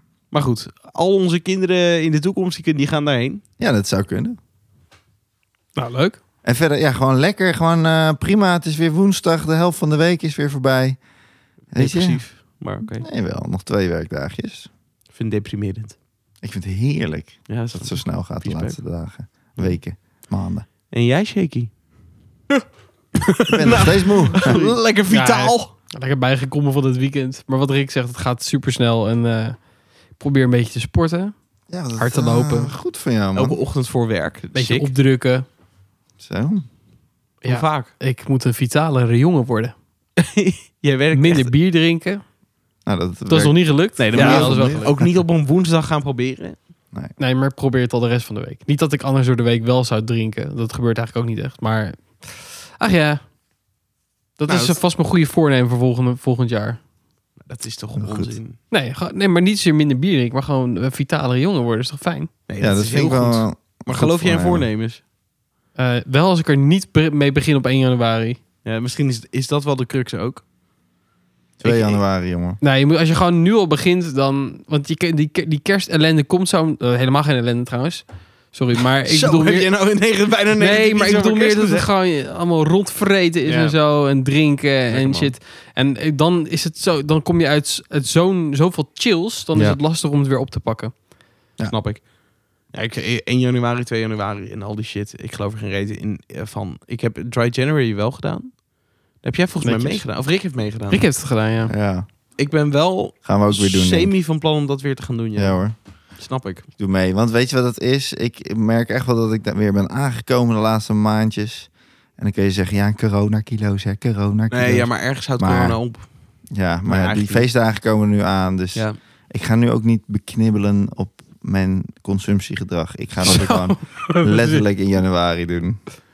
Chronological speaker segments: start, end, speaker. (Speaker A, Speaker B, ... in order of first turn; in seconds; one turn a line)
Speaker A: 0.3-3.4
Speaker B: 3.6-4.4
Speaker C: 5.8-6.2
Speaker B: 6.4-11.0
Speaker B: 11.7-12.2
Speaker A: 11.8-13.1
Speaker B: 13.0-14.7
Speaker A: 15.1-16.0
Speaker B: 16.4-20.6
Speaker A: 17.5-18.8
Speaker A: 20.9-21.7
Speaker A: 23.2-25.7
Speaker B: 23.5-24.8
Speaker C: 25.1-29.6
Speaker C: 30.1-31.3
Speaker B: 31.7-33.6
Speaker C: 32.0-32.7
Speaker A: 33.3-34.9
Speaker C: 34.5-35.4
Speaker B: 36.2-36.6
Speaker C: 37.4-39.7
Speaker A: 37.4-37.9
Speaker A: 40.2-41.5
Speaker C: 41.1-42.2
Speaker B: 42.9-45.1
Speaker C: 43.3-44.9
Speaker A: 44.0-46.6
Speaker C: 47.2-53.2
Speaker C: 54.4-56.8
Speaker A: 54.5-54.8
Speaker A: 57.5-58.6
Speaker B: 58.0-58.3
Speaker C: 58.7-62.3
Speaker A: 62.5-65.0
Speaker B: 62.6-64.7
Speaker C: 65.8-68.4
Speaker A: 68.6-70.4
Speaker B: 71.6-72.6
Speaker A: 71.6-72.0
Speaker C: 72.6-79.7
Speaker A: 79.1-81.9
Speaker C: 80.6-90.9
Speaker A: 83.4-83.8
Speaker A: 84.9-85.3
Speaker B: 89.5-89.8
Speaker A: 91.7-92.1
Speaker A: 92.7-98.6
Speaker A: 99.2-101.1
Speaker C: 99.6-100.0
Speaker C: 100.9-101.7
Speaker B: 101.7-102.1
Speaker A: 102.4-105.6
Speaker B: 103.2-104.1
Speaker B: 105.4-105.8
Speaker A: 106.2-106.7
Speaker B: 106.8-115.8
Speaker A: 114.5-116.1
Speaker B: 116.5-125.8
Speaker A: 116.8-117.4
Speaker C: 123.2-124.6